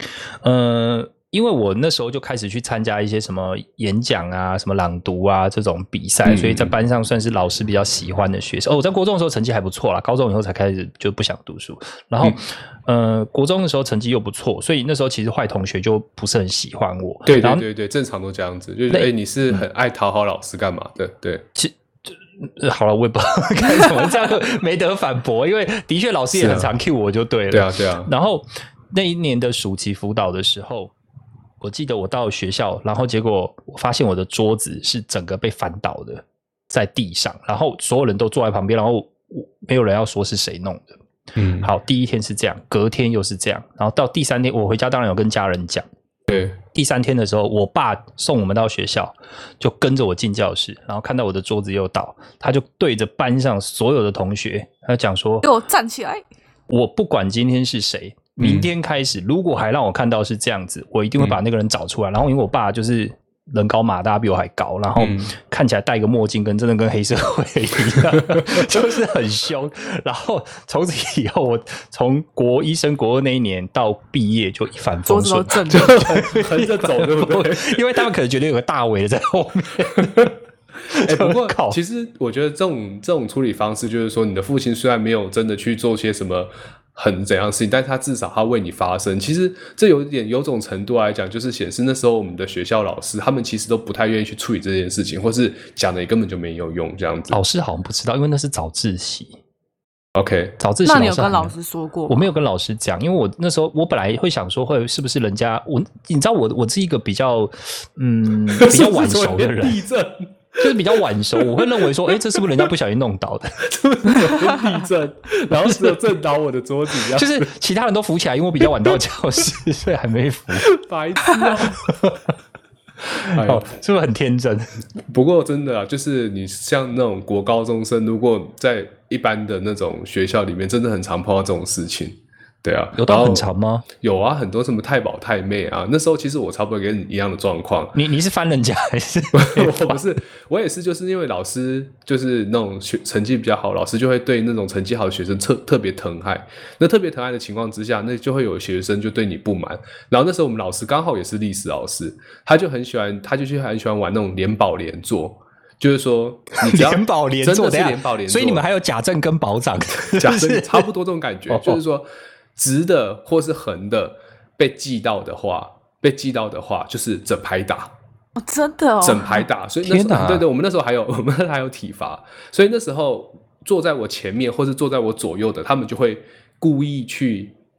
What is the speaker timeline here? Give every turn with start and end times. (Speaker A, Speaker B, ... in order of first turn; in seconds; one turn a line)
Speaker A: 0.4-17.6
Speaker B: 6.2-6.7
Speaker B: 17.2-21.4
Speaker A: 18.9-19.6
Speaker A: 21.5-30.9
Speaker B: 26.4-26.7
Speaker B: 27.5-28.1
Speaker A: 31.6-41.0
Speaker B: 41.4-41.7
Speaker A: 41.6-45.9
Speaker B: 46.3-46.6
Speaker A: 46.7-55.5
Speaker C: 55.4-56.2
Speaker A: 56.7-80.3
Speaker B: 58.4-58.7
Speaker B: 65.0-65.3
Speaker C: 75.0-76.2
Speaker B: 75.7-77.8
Speaker B: 80.0-80.3
Speaker A: 80.9-81.8
Speaker B: 80.9-97.4
Speaker A: 97.3-99.4
Speaker B: 100.2-100.6
Speaker A: 100.6-101.5
Speaker C: 100.8-102.3
Speaker A: 102.1-109.8
Speaker B: 108.5-112.4
Speaker A: 110.6-113.6
Speaker B: 113.6-117.5
Speaker A: 115.6-116.0
Speaker A: 117.0-120.7
Speaker B: 120.7-121.9
Speaker A: 121.8-122.2
Speaker A: 123.0-124.7
Speaker B: 123.3-123.7
Speaker B: 125.1-133.5
Speaker A: 132.9-133.8
Speaker B: 134.0-137.9
Speaker A: 137.9-140.0
Speaker B: 139.3-158.6
Speaker A: 156.6-160.9
Speaker B: 160.2-167.9
Speaker A: 161.5-161.8
Speaker C: 168.4-169.5
Speaker B: 169.0-177.5
Speaker A: 169.8-170.4